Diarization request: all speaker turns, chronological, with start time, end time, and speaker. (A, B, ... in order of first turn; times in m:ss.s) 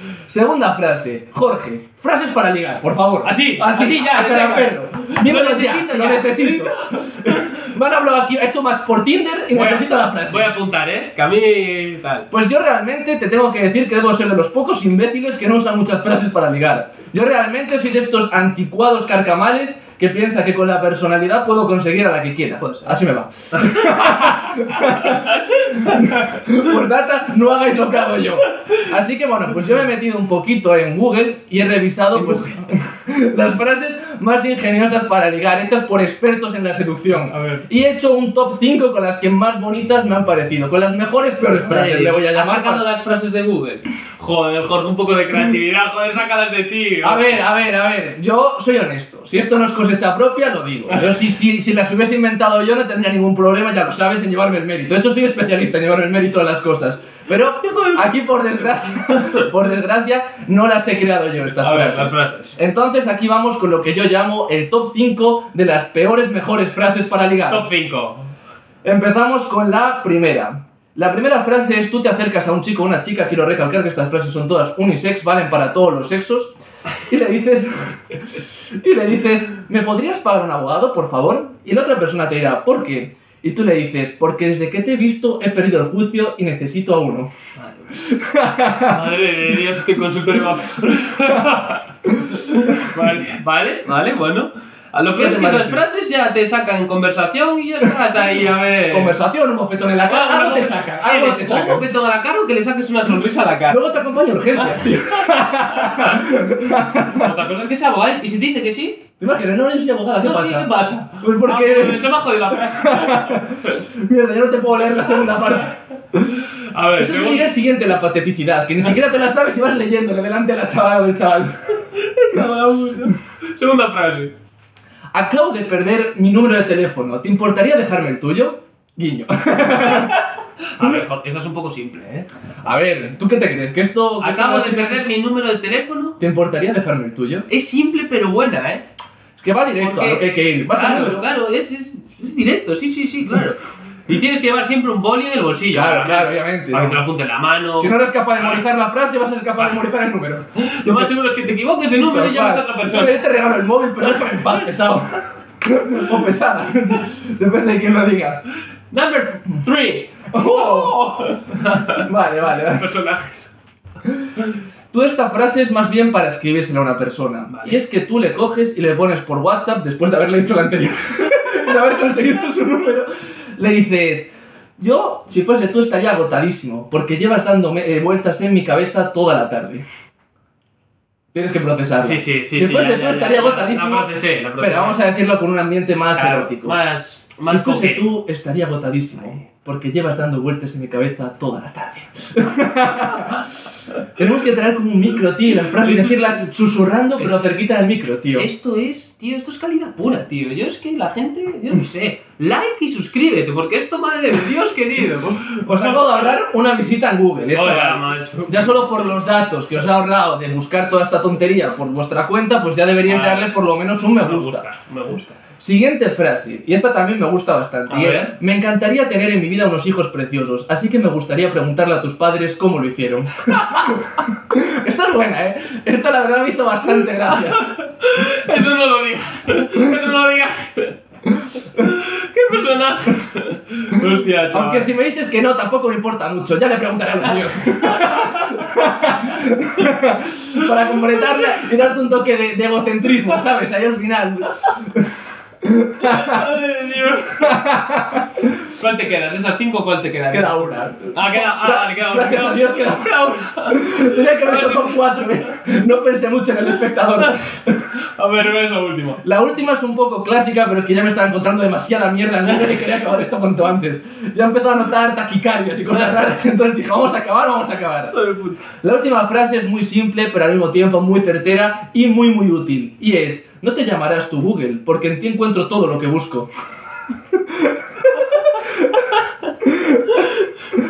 0:00.3-0:10.5 A
0:03.2-0:07.6 B
0:09.5-0:12.3 B
0:12.3-0:42.8 A
0:22.6-0:23.0 B
0:23.5-0:26.6 B
0:32.1-0:32.6 B
0:37.3-0:37.6 B
0:41.6-0:47.4 B
0:47.0-1:07.7 A
0:57.6-0:58.0 B
0:59.1-0:59.4 B
1:01.6-1:02.6 B
1:07.5-1:08.3 B
1:08.8-1:16.5 A
1:17.1-1:18.2 A
1:18.8-1:27.3 A
1:27.6-1:27.9 B
1:28.0-1:29.0 A
1:28.8-1:39.2 B
1:32.2-1:32.7 A
1:35.2-1:35.8 A
1:38.9-1:41.8 A
1:40.0-1:43.8 B
1:43.7-1:47.3 A
1:44.5-1:46.3 B
1:47.0-1:49.0 B
1:49.2-1:56.3 A
1:50.2-1:53.8 B
1:55.4-1:55.7 B
1:56.3-1:57.5 B
1:57.0-2:01.6 A
2:01.8-2:04.3 B
2:05.1-2:10.2 A
2:09.6-2:12.3 B
2:12.6-2:15.0 A
2:14.2-2:16.2 B
2:16.2-2:17.4 A
2:17.5-2:18.8 B
2:19.4-2:21.3 A
2:19.8-2:28.6 B
2:25.7-2:27.0 A
2:27.8-2:31.1 A
2:30.6-2:33.2 B
2:32.0-2:38.4 A
2:34.0-2:34.6 B
2:38.9-2:42.1 B
2:40.3-2:41.0 A
2:41.8-2:42.9 A
2:42.6-2:43.5 B
2:44.9-2:59.8 A
2:47.5-2:47.8 B
3:01.3-3:06.8 A
3:02.0-3:05.0 B
3:06.1-3:08.1 B
3:07.4-3:13.4 A
3:14.2-3:18.5 A
3:15.7-3:16.4 B
3:17.2-3:17.5 B
3:18.3-3:26.4 B
3:25.6-3:34.6 A
3:27.5-3:29.1 B
3:33.0-3:33.5 B
3:34.1-3:35.4 B
3:35.6-3:47.6 A
3:37.9-3:38.3 B
3:43.5-3:43.9 B
3:47.2-3:51.0 B
3:51.7-3:54.9 B
3:54.5-4:06.5 A
3:57.7-3:59.9 B
4:01.2-4:01.5 B
4:06.0-4:07.7 B
4:07.4-4:08.5 A
4:08.7-4:15.6 B
4:10.3-4:17.9 A
4:17.9-4:19.2 B
4:19.2-4:28.2 A
4:28.1-4:28.7 B
4:28.8-4:36.5 A
4:37.4-4:39.0 A
4:39.6-4:40.1 A
4:40.1-4:40.5 B